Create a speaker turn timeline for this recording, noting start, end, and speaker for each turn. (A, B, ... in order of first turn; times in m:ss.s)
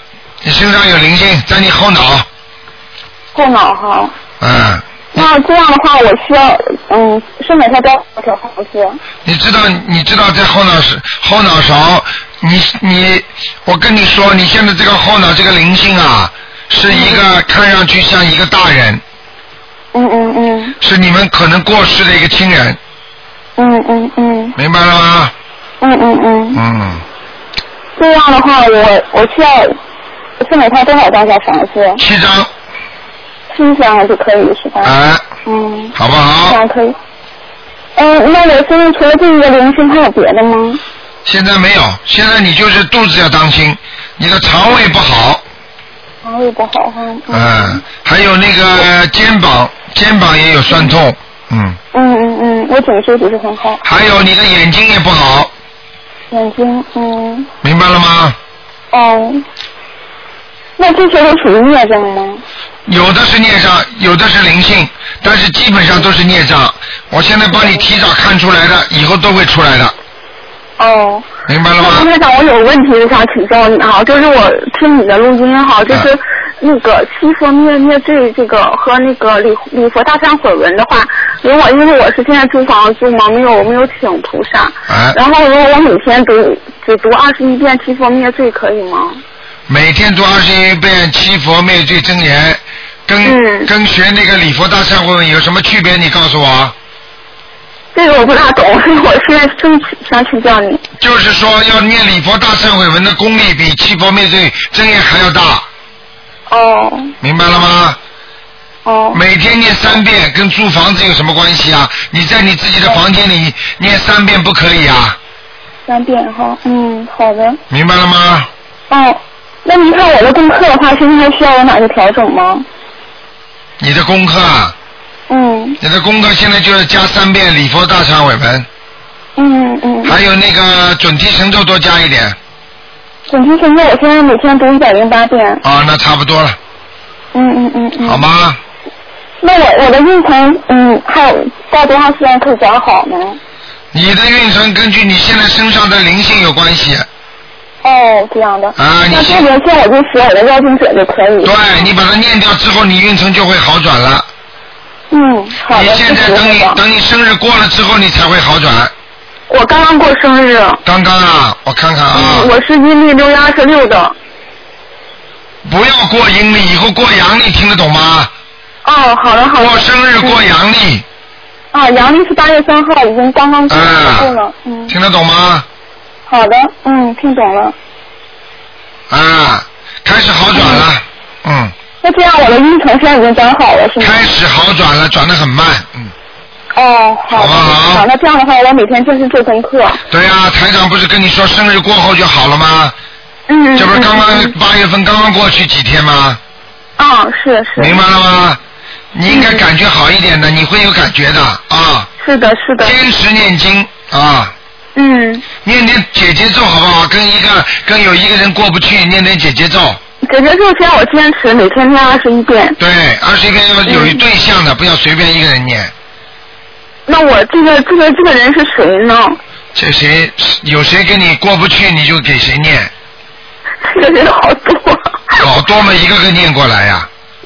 0:00.4-0:02.3 A
0:03.3-0:04.1 B
0:04.4-0:05.2 A
0:05.1-0:09.0 B
0:09.2-0:19.0 A
0:16.9-0:17.2 B
0:19.9-0:20.7 B
0:20.8-0:22.8 A
0:23.6-0:24.5 B
0:24.6-0:25.3 A
0:25.8-0:26.6 B
0:26.5-0:27.0 A
0:28.0-0:29.8 B
0:30.4-0:32.0 B
0:32.0-0:32.5 A
0:33.5-0:34.9 B
0:34.8-0:35.2 A
0:35.4-0:35.9 B
0:35.9-0:36.6 A
0:36.4-0:37.0 B
0:38.0-0:40.8 B
0:41.2-0:45.4 A
0:46.2-0:47.8 B
0:47.3-0:51.8 A
0:51.9-0:53.8 B
0:53.8-0:55.5 A
0:56.3-0:57.5 B
0:57.6-0:58.4 A
0:58.9-0:59.4 B
1:00.8-1:02.4 B
1:02.8-1:09.9 A
1:10.8-1:11.3 B
1:11.5-1:12.1 A
1:11.8-1:29.2 B
1:24.9-1:25.2 A
1:29.7-1:36.7 A
1:33.2-1:33.7 B
1:37.9-1:40.8 B
1:41.0-1:45.6 A
1:46.5-1:47.1 B
1:47.2-1:48.0 A
1:48.8-1:49.2 B
1:49.1-1:55.2 A
1:55.8-1:57.6 B
1:57.7-1:58.5 A
1:58.9-2:02.6 B
2:03.8-2:04.7 A
2:05.3-2:05.8 B
2:05.8-2:08.7 A
2:09.4-2:10.2 B
2:10.0-2:12.4 A
2:13.3-2:15.6 B
2:15.6-2:16.6 A
2:17.3-2:18.2 B
2:18.0-2:18.6 A
2:19.4-2:23.4 B
2:23.9-2:27.1 A
2:27.8-2:31.6 B
2:28.8-2:29.5 A
2:31.4-2:34.3 A
2:35.1-2:36.8 B
2:35.7-2:38.9 A
2:39.5-2:40.8 B
2:40.8-2:42.5 A
2:42.1-2:44.1 B
2:45.6-2:48.3 A
2:48.8-2:50.4 B
2:49.5-2:51.0 A
2:51.7-2:55.0 B
2:53.7-2:54.3 A
2:54.9-2:55.6 A
2:56.3-2:57.7 B
2:59.1-3:01.7 A
3:00.5-3:00.8 B
3:02.0-3:04.3 B
3:04.0-3:06.1 A
3:06.7-3:10.0 B
3:07.3-3:08.0 A
3:10.1-3:12.9 A
3:13.5-3:14.5 B
3:13.7-3:16.4 A
3:17.0-3:18.0 B
3:17.8-3:18.6 A
3:19.1-3:22.1 A
3:19.3-3:19.6 B
3:22.2-3:23.0 B
3:22.8-3:24.5 A
3:24.9-3:25.4 B
3:25.6-3:30.0 A
3:30.2-3:32.8 B
3:32.8-3:35.9 A
3:33.8-3:34.2 B
3:37.1-3:39.4 B
3:39.7-3:42.9 A
3:43.8-3:45.4 B
3:45.4-3:47.1 A